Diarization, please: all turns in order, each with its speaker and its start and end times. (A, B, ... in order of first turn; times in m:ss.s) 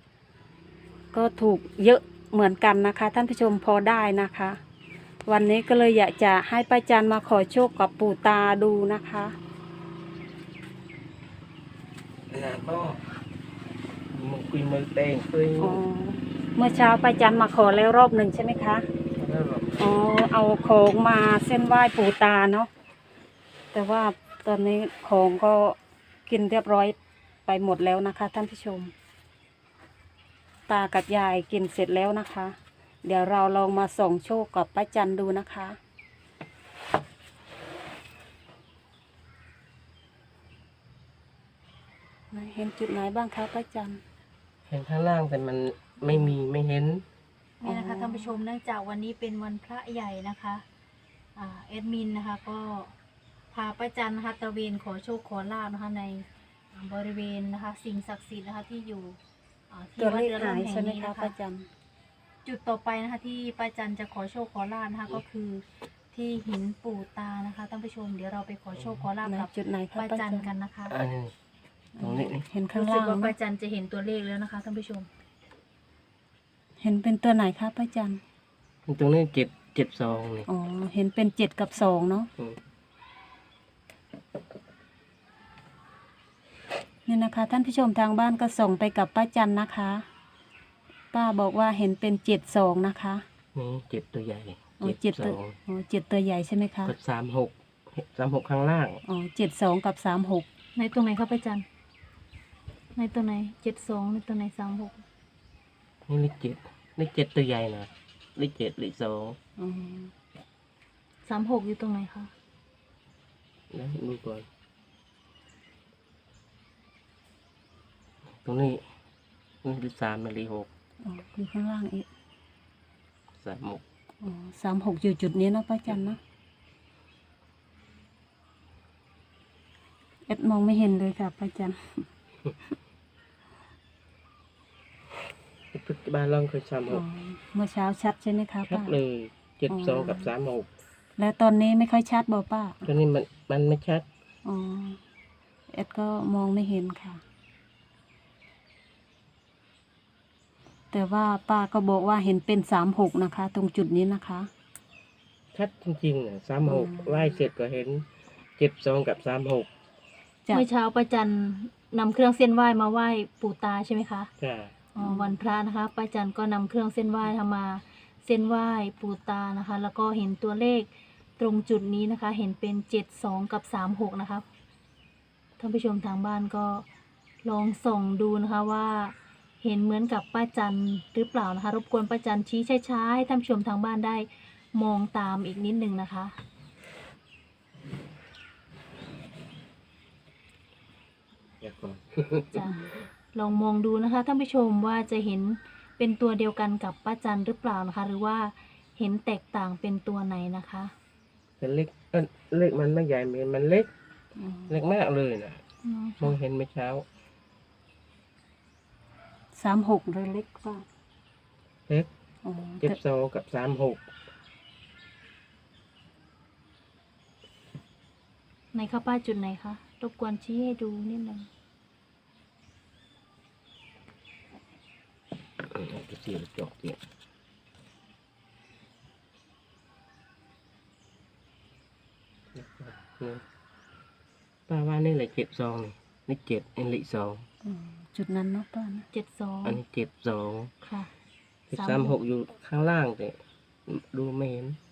0:01.1-0:04.6 A
0:05.3-0:09.4 A
0:12.3-0:13.0 B
0:14.1-0:15.8 B
0:15.6-0:18.9 A
0:19.1-0:20.0 B
0:19.8-0:22.7 A
0:23.7-0:28.9 A
0:30.7-0:35.8 A
0:42.3-0:44.0 A
0:44.7-0:47.0 B
0:47.6-0:50.6 C
0:47.6-0:48.4 A
0:51.4-0:52.9 C
0:53.5-0:59.2 C
0:59.7-1:01.3 C
1:00.0-1:01.7 A
1:02.4-1:11.0 C
1:09.2-1:10.5 A
1:10.9-1:11.3 B
1:12.0-1:13.4 A
1:12.0-1:12.4 B
1:12.7-1:15.1 C
1:16.8-1:18.2 A
1:18.9-1:20.5 B
1:20.5-1:22.3 A
1:27.1-1:30.0 A
1:31.1-1:33.2 A
1:33.6-1:35.6 B
1:34.8-1:37.0 A
1:36.9-1:39.0 B
1:39.0-1:40.5 A
1:40.8-1:41.6 C
1:43.0-1:45.0 C
1:46.1-1:49.4 B
1:49.6-1:50.1 A
1:51.2-1:52.3 C
1:53.7-1:54.5 B
1:58.4-1:58.8 B
1:59.6-2:00.7 B
2:01.0-2:02.1 A
2:03.4-2:03.8 B
2:04.2-2:06.2 A
2:10.3-2:12.1 A
2:15.7-2:17.0 B
2:16.9-2:19.0 A
2:18.7-2:20.7 B
2:19.7-2:20.3 A
2:21.2-2:22.9 A
2:22.9-2:24.1 B
2:24.4-2:25.0 A
2:25.7-2:27.2 A
2:30.9-2:34.5 A
2:35.5-2:38.0 B
2:36.7-2:37.4 A
2:38.6-2:39.7 B
2:40.5-2:44.3 C
2:44.4-2:44.7 B
2:45.0-2:54.5 C
2:45.0-2:45.3 A
2:55.6-2:56.9 C
2:57.4-3:06.3 C
3:11.6-3:12.6 B
3:13.3-3:20.9 C
3:21.6-3:23.9 B
3:24.4-3:24.7 A
3:24.7-3:25.6 B
3:25.8-3:26.3 C
3:26.2-3:27.0 B
3:29.6-3:30.8 A
3:32.4-3:33.0 A
3:32.8-3:34.0 B
3:38.7-3:41.5 C
3:45.6-3:47.0 B
3:52.6-3:53.4 B
3:54.7-3:57.5 B
3:57.6-3:59.1 A
3:59.1-3:59.8 C
3:59.6-4:00.7 B
4:00.8-4:01.1 C
4:01.7-4:04.8 B
4:01.7-4:02.2 C